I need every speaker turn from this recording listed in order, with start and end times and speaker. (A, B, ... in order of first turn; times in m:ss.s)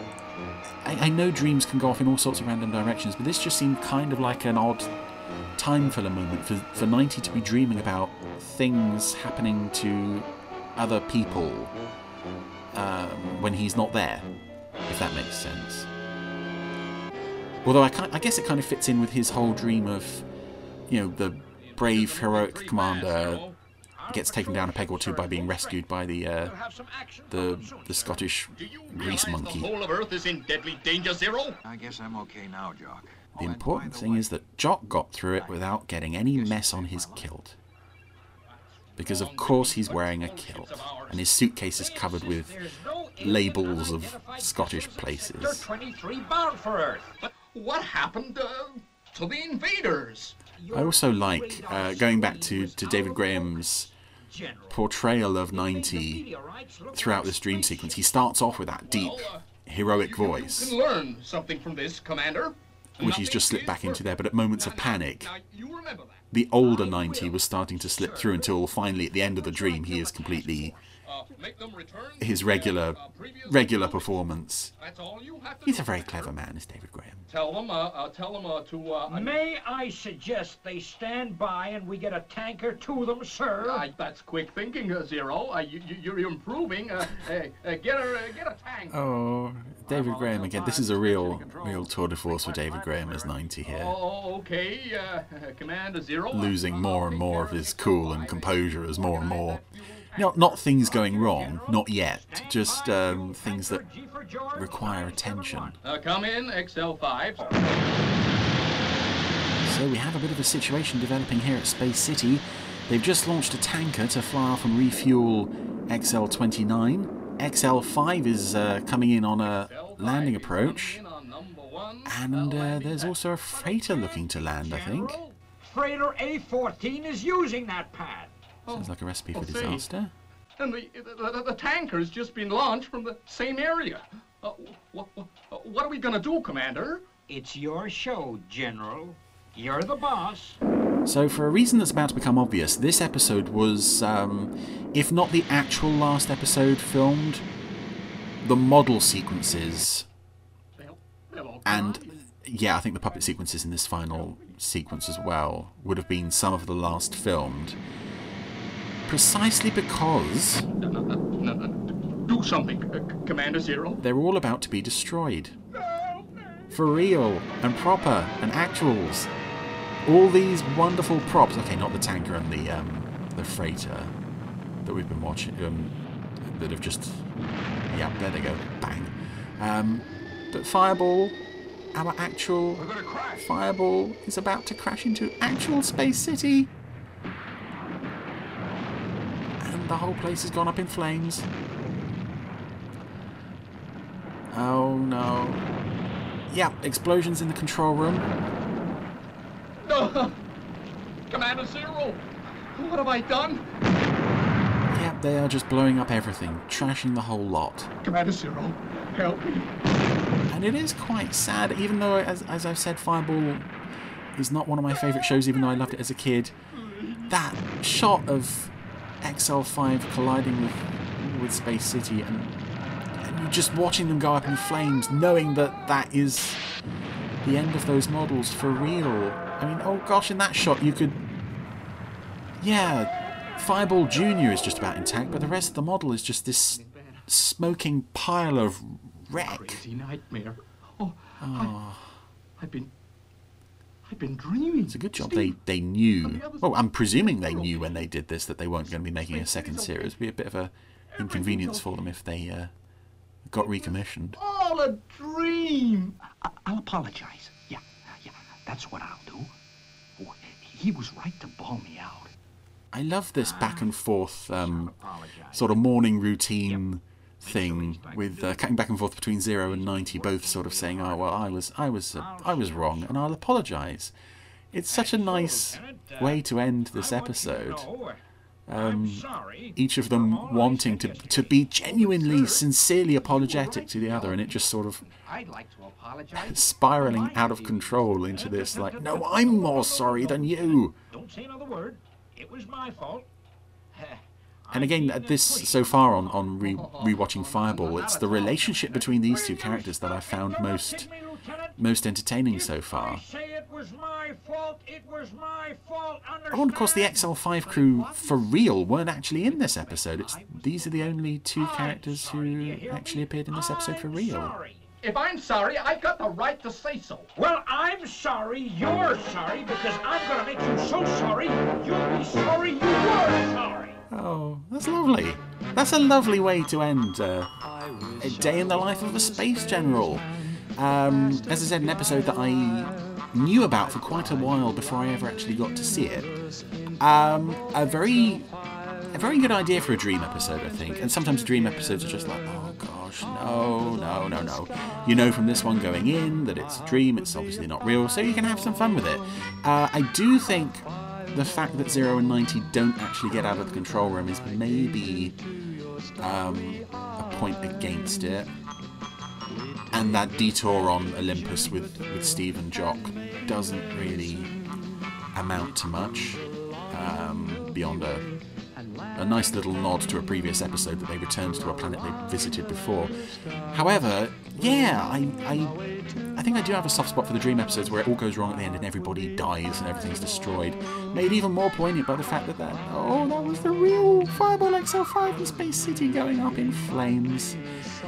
0:00.8-0:04.9 A
0:05.6-0:11.7 A
0:12.7-0:14.3 A
0:14.9-0:15.9 A
0:17.6-0:20.3 A
0:20.9-0:23.5 A
0:21.6-0:23.6 B
0:24.0-0:25.8 C
0:24.1-0:26.6 A
0:26.4-0:28.3 C
0:27.3-0:29.7 A
0:28.5-0:31.6 B
0:31.6-0:34.4 D
0:33.4-0:37.6 A
0:36.3-0:37.3 D
0:39.0-0:42.6 A
0:39.0-0:41.2 B
0:41.7-0:47.3 C
0:43.2-0:45.7 A
0:47.5-0:50.4 B
0:50.6-0:53.7 C
0:50.7-0:53.9 A
0:54.3-0:54.9 C
0:54.7-0:56.2 A
0:55.5-0:58.0 C
0:56.9-1:00.8 A
0:58.8-1:06.2 B
1:03.0-1:05.3 A
1:06.3-1:10.8 A
1:06.6-1:08.6 C
1:09.4-1:16.3 B
1:09.8-1:10.5 C
1:12.2-1:14.7 A
1:15.6-1:17.3 A
1:17.3-1:19.4 B
1:19.1-1:23.9 C
1:23.6-1:29.0 B
1:28.9-1:34.0 A
1:29.9-1:33.5 D
1:33.6-1:40.4 B
1:36.3-1:39.6 A
1:40.1-1:43.8 A
1:40.2-1:45.8 C
1:44.6-1:45.8 A
1:45.8-1:47.6 B
1:49.6-2:01.0 A
1:59.4-2:03.2 B
2:02.1-2:05.2 A
2:03.5-2:08.3 C
2:08.7-2:09.9 B
2:08.7-2:10.1 A
2:10.6-2:17.0 B
2:17.3-2:20.6 C
2:21.1-2:27.4 A
2:28.4-2:30.1 A
2:30.8-2:32.1 B
2:31.6-2:37.8 A
2:39.1-2:40.7 A
2:40.8-2:44.0 B
2:44.0-2:45.6 A
2:45.8-2:46.2 B
2:46.7-2:49.3 A
2:50.0-2:54.1 A
2:54.8-2:55.9 A
2:56.4-2:57.3 A
2:57.9-3:01.4 A
3:02.0-3:06.7 A
3:02.8-3:03.5 D
3:09.6-3:11.5 A
3:14.5-3:15.6 A
3:16.5-3:18.3 A
3:19.8-3:20.4 B
3:21.3-3:22.2 B
3:22.8-3:23.7 B
3:24.9-3:27.9 A
3:28.0-3:29.7 B
3:30.5-3:33.7 A
3:34.4-3:36.5 A
3:36.9-3:37.3 B
3:37.3-3:42.6 A
3:43.2-3:46.6 A
3:47.4-3:51.2 A
3:52.6-3:59.8 A
3:56.8-3:57.3 B
3:59.3-4:01.8 B
4:01.4-4:02.2 A
4:02.6-4:02.9 B
4:04.1-4:05.6 B
4:04.9-4:12.7 A
4:06.2-4:08.0 B
4:09.0-4:10.2 B
4:11.2-4:11.9 B
4:13.5-4:14.4 A
4:14.3-4:16.2 B
4:16.4-4:19.5 E
4:16.8-4:17.2 C
4:18.7-4:19.3 C
4:20.2-4:22.3 E
4:20.3-4:22.2 C
4:22.9-4:34.1 A
4:24.6-4:25.6 E
4:27.5-4:28.0 E
4:27.9-4:28.4 C
4:29.7-4:31.6 C
4:32.1-4:33.4 C
4:34.7-4:37.9 A
4:34.9-4:38.2 C
4:38.7-4:45.0 A
4:38.7-4:42.6 C
4:43.2-4:44.6 C
4:45.2-4:53.3 C
4:46.3-4:51.0 A
4:53.9-4:56.5 C
4:54.7-5:01.1 A
4:56.6-4:59.1 B
4:59.2-5:01.8 C
5:01.8-5:03.2 A
5:02.5-5:08.8 C
5:06.5-5:14.6 A
5:09.4-5:14.8 C
5:15.0-5:17.3 B
5:17.4-5:24.0 C
5:24.1-5:27.5 A
5:28.2-5:36.3 A
5:37.0-5:38.5 A
5:39.1-5:55.4 A
5:56.2-5:58.5 A
5:59.9-6:04.6 A
6:05.3-6:08.3 A
6:09.2-6:15.8 A
6:16.4-6:27.6 A